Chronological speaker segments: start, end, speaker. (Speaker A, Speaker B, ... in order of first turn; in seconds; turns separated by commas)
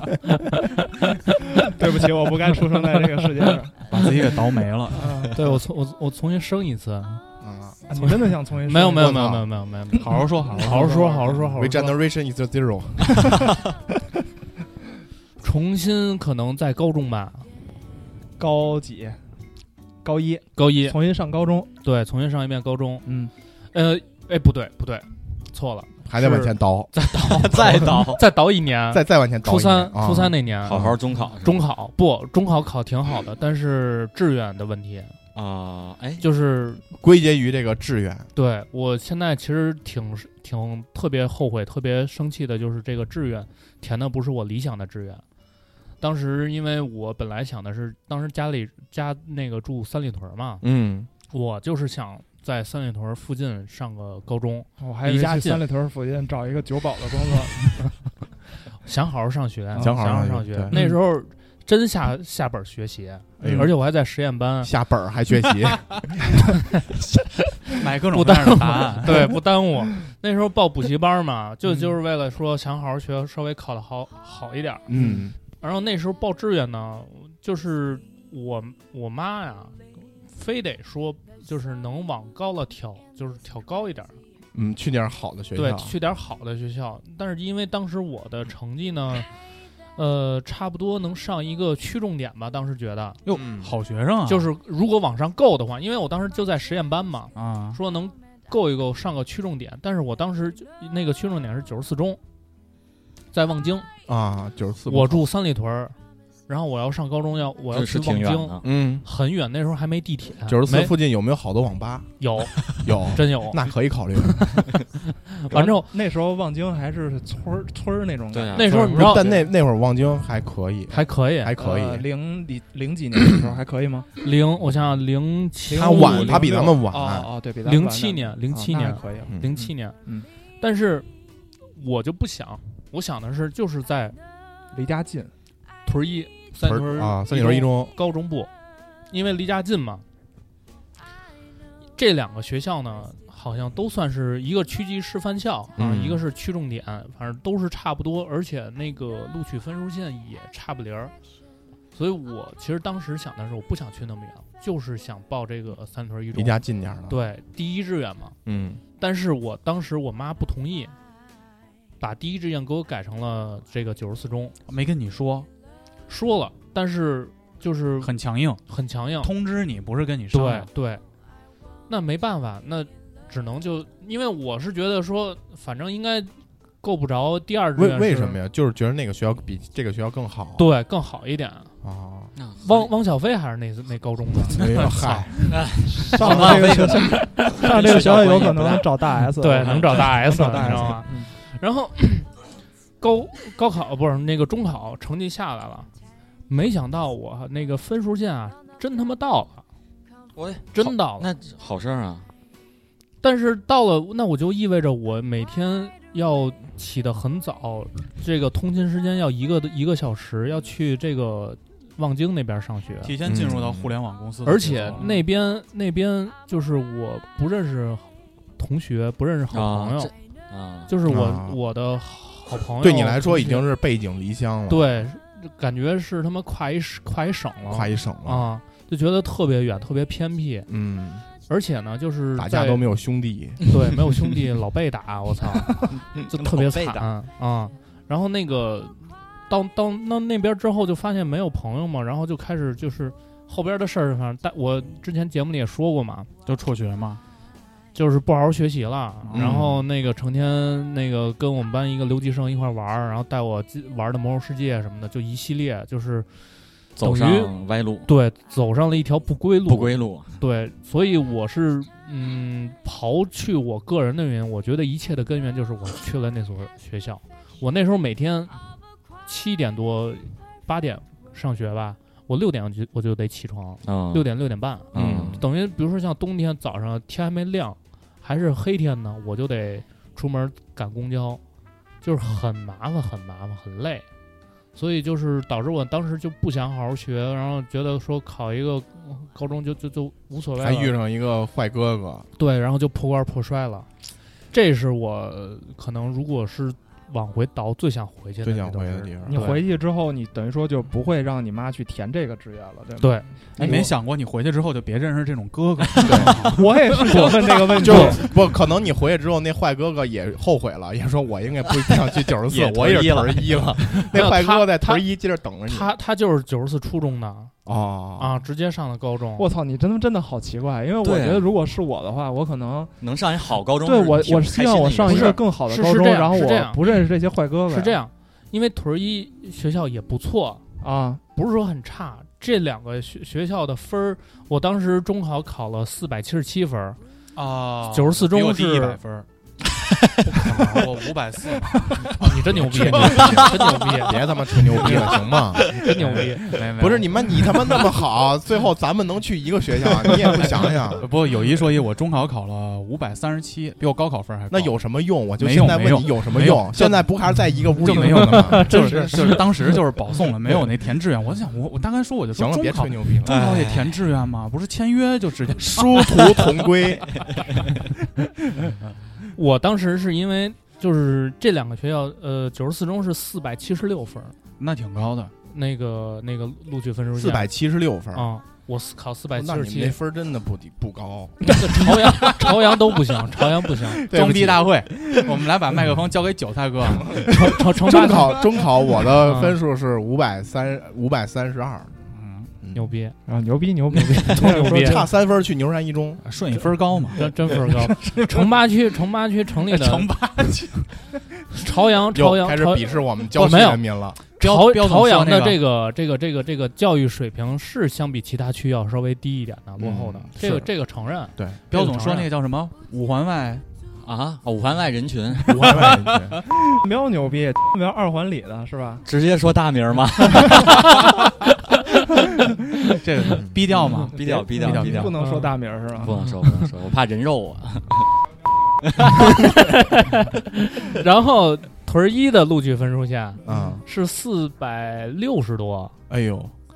Speaker A: 1.6-3.8, Speaker B: 3.9-5.1, Speaker A: 4.9-5.4, Speaker C: 5.3-7.2, Speaker D: 7.4-7.9, Speaker A: 7.9-9.2, Speaker C: 8.7-11.9, Speaker D: 8.8-9.4, Speaker B: 10.0-11.0, Speaker D: 10.6-13.2, Speaker A: 10.7-11.3, Speaker C: 15.4-17.5, Speaker A: 18.4-19.2, Speaker A: 20.0-21.7, Speaker C: 20.5-21.0, Speaker C: 21.8-23.1, Speaker A: 23.0-23.3, Speaker C: 23.7-25.9, Speaker D: 26.0-26.9, Speaker A: 26.2-26.5, Speaker C: 26.9-35.1, Speaker E: 27.1-28.2, Speaker D: 28.9-30.9, Speaker E: 30.6-31.6, Speaker E: 35.3-36.2, Speaker C: 36.2-36.8, Speaker D: 36.9-38.3, Speaker C: 38.3-45.2, Speaker C: 46.0-50.6, Speaker D: 50.6-51.1, Speaker C: 51.3-55.6, Speaker A: 54.8-58.0, Speaker C: 58.8-64.7, Speaker D: 59.8-60.8, Speaker B: 60.7-61.0, Speaker D: 63.4-63.8, Speaker D: 64.6-66.0, Speaker B: 67.8-69.3, Speaker C: 68.1-74.9, Speaker B: 71.6-71.9, Speaker D: 74.9-75.3, Speaker C: 75.5-84.2, Speaker D: 84.5-86.0, Speaker C: 85.5-89.3, Speaker C: 89.9-93.2, Speaker B: 93.2-94.5, Speaker D: 93.3-93.7, Speaker C: 94.3-102.2, Speaker B: 97.3-97.8, Speaker C: 103.3-103.9, Speaker D: 104.1-105.2, Speaker C: 104.9-105.9, Speaker C: 106.5-110.9, Speaker E: 107.7-108.6, Speaker D: 108.6-109.0, Speaker D: 110.5-112.1, Speaker C: 112.2-113.7, Speaker D: 112.8-114.8, Speaker C: 115.4-115.9, Speaker A: 115.5-119.4, Speaker E: 118.3-118.9, Speaker C: 118.5-119.3, Speaker D: 118.7-122.0, Speaker C: 120.9-121.5, Speaker A: 121.6-124.1, Speaker C: 124.2-126.7, Speaker A: 125.7-130.3, Speaker D: 125.7-127.3, Speaker C: 127.6-130.0, Speaker C: 130.6-131.1, Speaker C: 131.7-134.2, Speaker A: 134.7-135.3, Speaker C: 135.8-138.5, Speaker D: 136.6-137.9, Speaker C: 139.1-140.0, Speaker C: 141.9-151.1, Speaker D: 145.8-146.2, Speaker C: 151.9-158.3, Speaker D: 156.3-157.2, Speaker D: 158.4-158.8, Speaker C: 159.0-160.9, Speaker C: 162.0-164.5, Speaker B: 164.7-165.5, Speaker C: 166.1-168.1, Speaker B: 168.0-168.6, Speaker C: 168.7-169.3, Speaker B: 169.2-170.7, Speaker C: 170.3-171.0, Speaker C: 171.9-178.4, Speaker D: 177.8-180.7, Speaker C: 180.6-181.7, Speaker D: 181.8-182.3, Speaker E: 182.4-182.9, Speaker C: 182.6-185.2, Speaker D: 184.5-185.6, Speaker B: 184.5-185.3, Speaker E: 185.5-190.1, Speaker A: 185.8-191.3, Speaker C: 186.2-188.1, Speaker C: 189.4-192.3, Speaker C: 193.0-195.9, Speaker C: 196.5-199.6, Speaker E: 200.3-202.3, Speaker C: 200.7-201.3, Speaker C: 203.2-213.2, Speaker B: 213.0-215.1, Speaker D: 213.2-213.9, Speaker C: 214.4-220.1, Speaker E: 219.5-220.9, Speaker C: 220.9-223.7, Speaker D: 221.0-221.6, Speaker D: 222.8-225.1, Speaker C: 224.7-230.7, Speaker D: 227.7-228.5, Speaker D: 230.7-231.3, Speaker C: 231.4-232.8, Speaker D: 232.3-233.7, Speaker C: 233.6-246.3, Speaker E: 236.1-237.1, Speaker B: 246.4-247.2, Speaker C: 247.9-256.3, Speaker B: 249.3-249.6, Speaker D: 249.3-249.8, Speaker E: 256.9-258.1, Speaker C: 256.9-268.6, Speaker E: 259.7-260.3, Speaker C: 269.2-281.4, Speaker E: 273.8-274.3, Speaker E: 274.9-275.4, Speaker D: 274.9-275.4, Speaker C: 282.0-284.0, Speaker C: 284.7-290.9, Speaker D: 290.6-292.3, Speaker C: 292.4-293.9, Speaker C: 294.5-299.6, Speaker D: 298.4-299.5, Speaker A: 299.2-303.9, Speaker C: 303.0-303.3, Speaker B: 303.6-308.2, Speaker D: 306.0-306.5, Speaker A: 306.2-308.3, Speaker D: 307.8-315.9, Speaker B: 312.5-313.7, Speaker C: 314.1-315.1, Speaker C: 315.6-317.5, Speaker D: 317.6-318.4, Speaker C: 318.2-319.5, Speaker A: 319.4-323.0, Speaker E: 321.0-321.5, Speaker E: 323.0-325.4, Speaker A: 323.8-328.0, Speaker C: 325.0-327.0, Speaker C: 327.7-330.6, Speaker A: 330.8-331.2, Speaker C: 331.3-337.0, Speaker B: 337.3-339.3, Speaker C: 337.9-339.0, Speaker C: 340.2-340.8, Speaker B: 340.4-347.8, Speaker C: 342.1-346.5, Speaker D: 342.6-345.7, Speaker D: 346.6-351.1, Speaker B: 351.0-354.8, Speaker D: 354.5-359.5, Speaker B: 355.4-357.2, Speaker B: 357.8-367.0, Speaker C: 358.0-359.5, Speaker D: 362.3-363.4, Speaker E: 363.2-364.0, Speaker D: 365.6-367.2, Speaker C: 369.3-374.4, Speaker B: 374.6-375.3, Speaker C: 375.5-377.5, Speaker D: 377.1-378.3, Speaker C: 378.1-379.9, Speaker D: 379.3-381.5, Speaker C: 381.5-384.0, Speaker D: 384.0-385.1, Speaker B: 384.1-387.3, Speaker D: 387.1-392.0, Speaker C: 387.3-388.6, Speaker C: 389.2-389.6, Speaker B: 392.1-392.5, Speaker D: 392.6-392.9, Speaker C: 392.7-393.1, Speaker A: 393.2-395.1, Speaker C: 394.3-395.0, Speaker D: 394.5-396.2, Speaker B: 396.2-398.5, Speaker C: 397.1-400.1, Speaker B: 399.7-401.1, Speaker C: 401.6-412.3, Speaker D: 402.1-404.2, Speaker B: 404.4-405.6, Speaker D: 409.8-410.6, Speaker D: 411.4-411.6, Speaker B: 411.7-413.6, Speaker E: 414.0-415.9, Speaker D: 415.5-416.4, Speaker B: 415.6-416.0, Speaker A: 416.7-419.0, Speaker E: 419.0-421.1, Speaker B: 423.0-425.2, Speaker A: 424.0-426.1, Speaker E: 424.1-425.2, Speaker C: 425.2-425.5, Speaker E: 426.0-428.1, Speaker E: 429.0-429.3, Speaker C: 429.4-435.9, Speaker D: 433.4-433.8, Speaker A: 433.5-433.7, Speaker D: 436.1-436.5